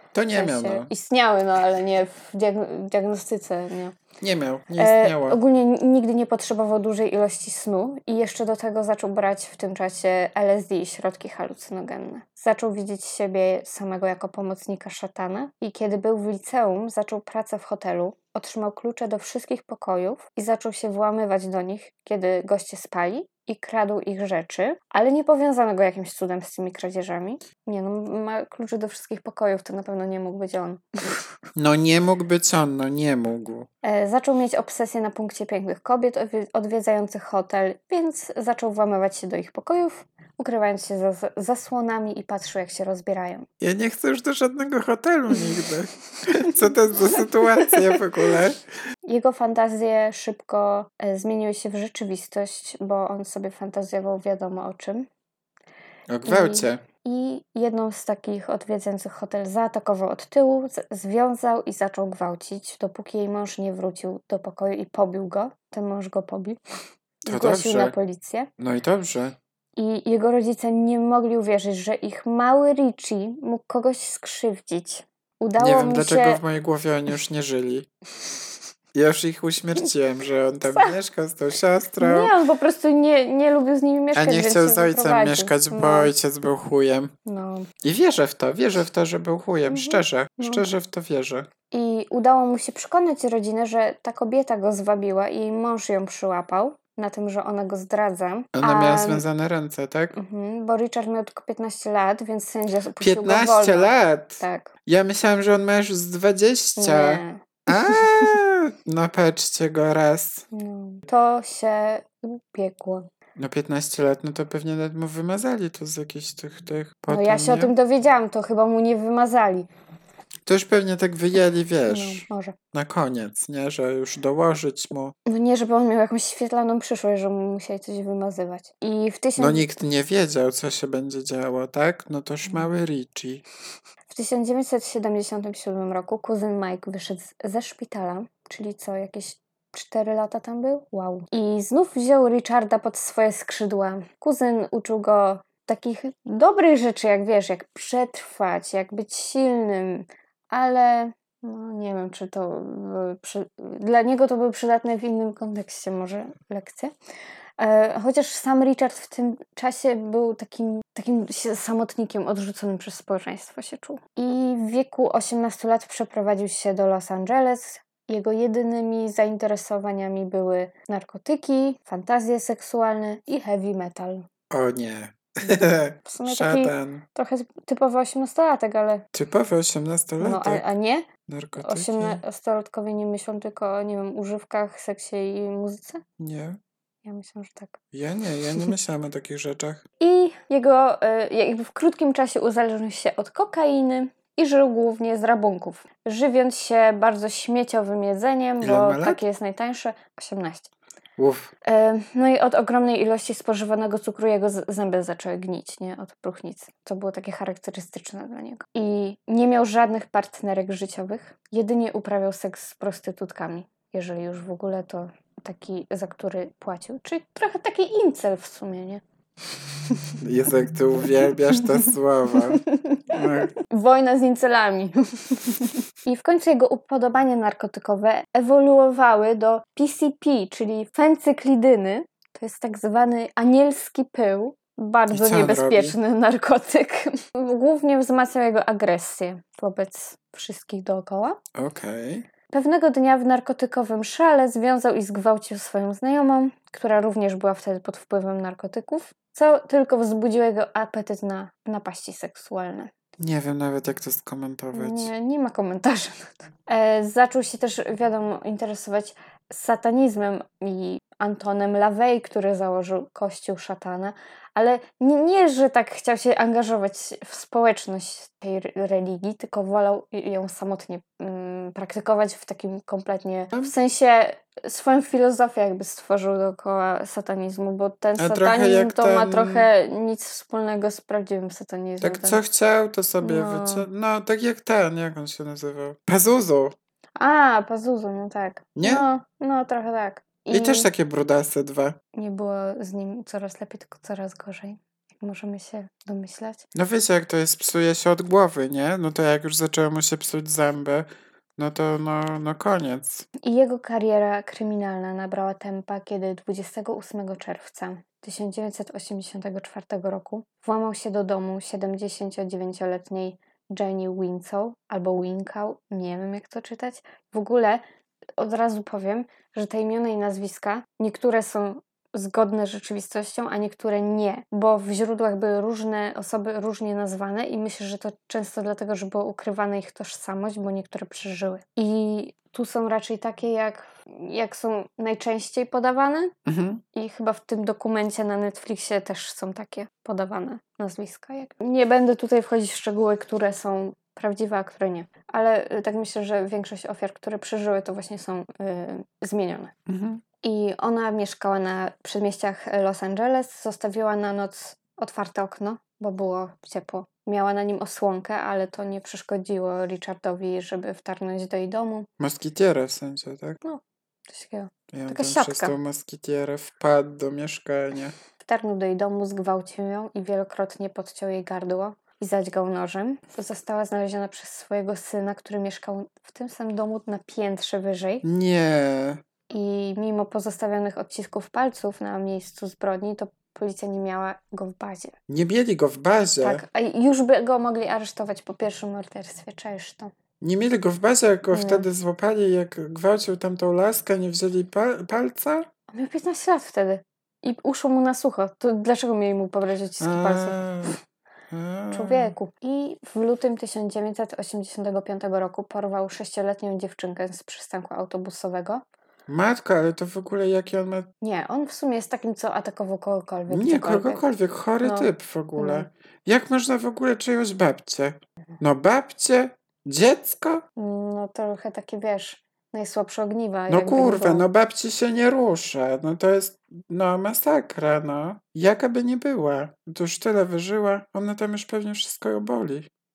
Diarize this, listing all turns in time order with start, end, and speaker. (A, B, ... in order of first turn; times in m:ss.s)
0:00.2-0:00.9 A
0:00.3-0:04.0 B
0:04.2-0:05.4 A
0:04.8-0:31.2 B
0:31.6-0:33.7 A
0:33.8-0:43.5 B
0:43.6-0:48.6 A
0:47.7-0:48.0 B
0:49.1-0:55.1 B
0:56.1-0:56.8 A
0:56.2-1:06.6 B
1:07.2-1:08.5 B
1:07.3-1:07.9 A
1:08.6-1:09.4 A
1:09.8-1:16.4 B
1:15.6-1:17.9 A
1:18.9-1:22.3 A
1:22.0-1:26.1 B
1:24.1-1:27.1 A
1:27.3-1:27.7 B
1:27.8-1:31.5 A
1:29.7-1:30.7 B
1:31.7-1:39.2 B
1:38.6-1:40.2 A
1:40.1-1:44.7 B
1:43.0-1:50.5 A
1:46.8-1:48.4 B
1:50.5-1:53.1 B
1:53.4-1:57.7 A
1:57.1-1:59.7 B
2:00.4-2:05.2 A
2:01.9-2:02.6 B
2:05.3-2:09.7 B
2:09.4-2:13.4 A
2:14.1-2:36.9 B
2:37.6-2:54.3 B
2:54.5-2:57.0 A
2:56.0-2:59.1 B
2:59.1-3:00.6 A
3:00.2-3:06.0 B
3:01.3-3:02.2 A
3:06.2-3:06.6 A
3:07.0-3:07.8 B
3:07.9-3:09.8 A
3:10.0-3:20.7 B
3:18.6-3:19.2 A
3:21.2-3:21.5 A
3:21.6-3:39.0 B
3:40.2-3:43.5 A
3:42.5-4:01.4 B
3:55.1-3:56.0 A
4:01.6-4:02.2 A
4:02.5-4:12.9 B
4:13.2-4:15.1 A
4:14.7-4:42.4 B
4:38.2-4:39.7 A
4:42.0-4:46.8 A
4:43.2-4:43.9 B
4:47.2-4:50.9 B
4:48.8-4:49.0 A
4:50.5-4:52.0 A
4:52.1-4:56.7 B
4:56.7-5:03.3 A
5:03.4-5:17.8 B
5:18.4-5:36.3 B
5:36.5-5:36.8 A
5:36.9-5:49.7 B
5:49.9-5:50.2 A
5:50.4-6:02.1 B
6:02.2-6:03.6 A
6:03.6-6:05.8 B
6:04.9-6:08.1 A
6:08.4-6:18.2 B
6:18.2-6:19.2 A
6:19.5-6:25.1 B
6:25.3-6:26.6 A
6:26.4-6:30.1 B
6:30.4-6:35.7 A
6:31.5-6:31.9 B
6:35.9-6:40.9 B
6:40.0-6:41.0 A
6:41.5-6:42.3 A
6:41.9-6:48.8 B
6:49.3-6:51.1 A
6:51.2-6:54.2 B
6:53.5-7:00.6 A
6:54.8-6:55.9 B
7:00.8-7:04.4 B
7:03.7-7:12.9 A